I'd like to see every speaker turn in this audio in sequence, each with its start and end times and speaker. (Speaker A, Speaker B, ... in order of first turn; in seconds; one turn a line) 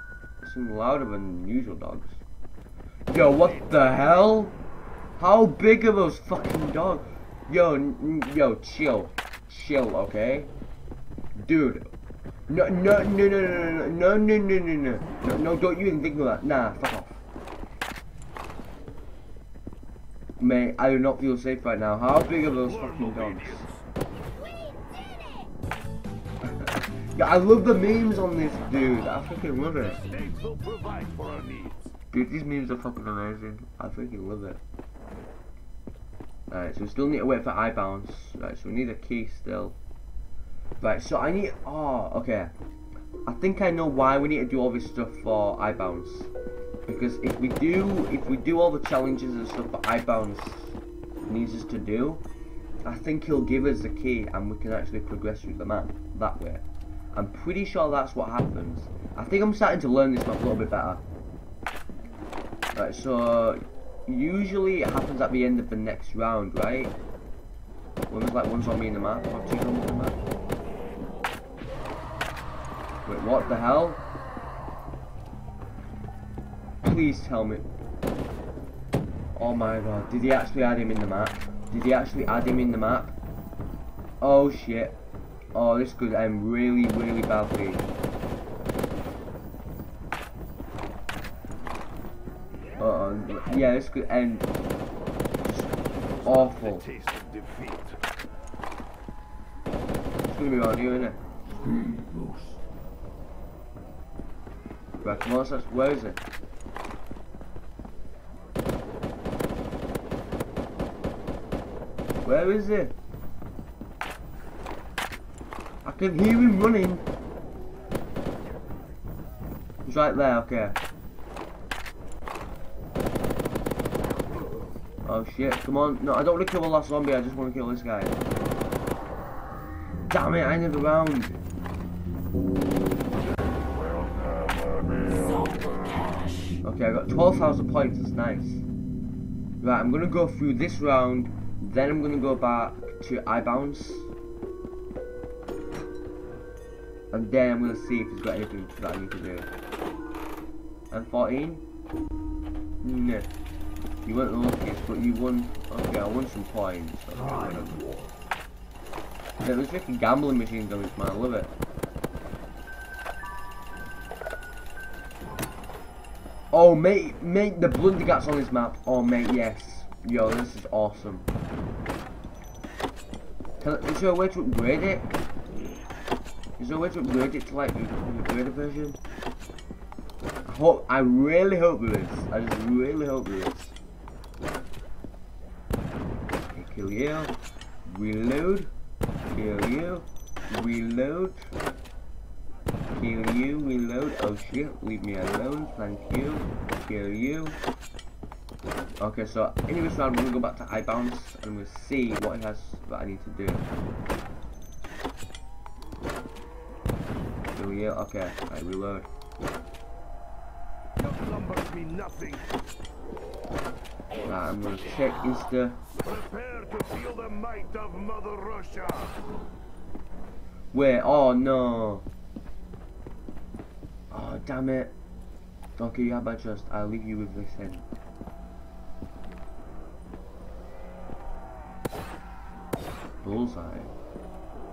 Speaker A: 0.4-2.2
Speaker A: 3.1-4.5
Speaker B: 3.3-4.1
Speaker A: 5.2-10.5
Speaker A: 11.4-11.9
Speaker A: 12.5-17.2
Speaker A: 20.4-23.7
Speaker B: 22.4-23.9
Speaker A: 26.4-30.0
Speaker B: 29.7-31.9
Speaker A: 32.1-34.6
Speaker A: 36.5-39.8
Speaker A: 40.8-42.5
Speaker A: 43.2-46.3
Speaker A: 46.9-52.2
Speaker A: 52.8-61.0
Speaker A: 62.7-66.9
Speaker A: 68.1-70.2
Speaker A: 73.0-74.0
Speaker A: 76.8-77.7
Speaker A: 79.3-83.2
Speaker A: 84.2-85.0
Speaker A: 85.5-87.9
Speaker A: 92.8-94.5
Speaker B: 95.4-98.0
Speaker A: 96.2-96.8
Speaker A: 100.2-101.2
Speaker B: 101.8-102.5
Speaker A: 105.0-106.2
Speaker A: 112.2-112.9
Speaker A: 115.8-117.1
Speaker A: 119.8-120.8
Speaker A: 125.0-128.2
Speaker A: 130.1-131.4
Speaker A: 136.6-138.6
Speaker A: 139.6-144.1
Speaker A: 147.1-149.5
Speaker A: 150.9-151.6
Speaker A: 152.8-153.3
Speaker A: 154.0-157.8
Speaker A: 159.4-161.5
Speaker A: 166.5-171.2
Speaker A: 173.6-175.1
Speaker A: 176.6-179.0
Speaker A: 180.4-183.7
Speaker A: 186.5-187.3
Speaker A: 187.8-188.7
Speaker A: 189.3-191.5
Speaker A: 192.9-197.6
Speaker A: 199.0-203.7
Speaker A: 207.5-209.1
Speaker B: 211.0-212.5
Speaker A: 214.2-215.8
Speaker B: 215.9-219.2
Speaker A: 220.7-222.1
Speaker A: 224.1-224.9
Speaker A: 225.8-227.8
Speaker A: 233.2-233.9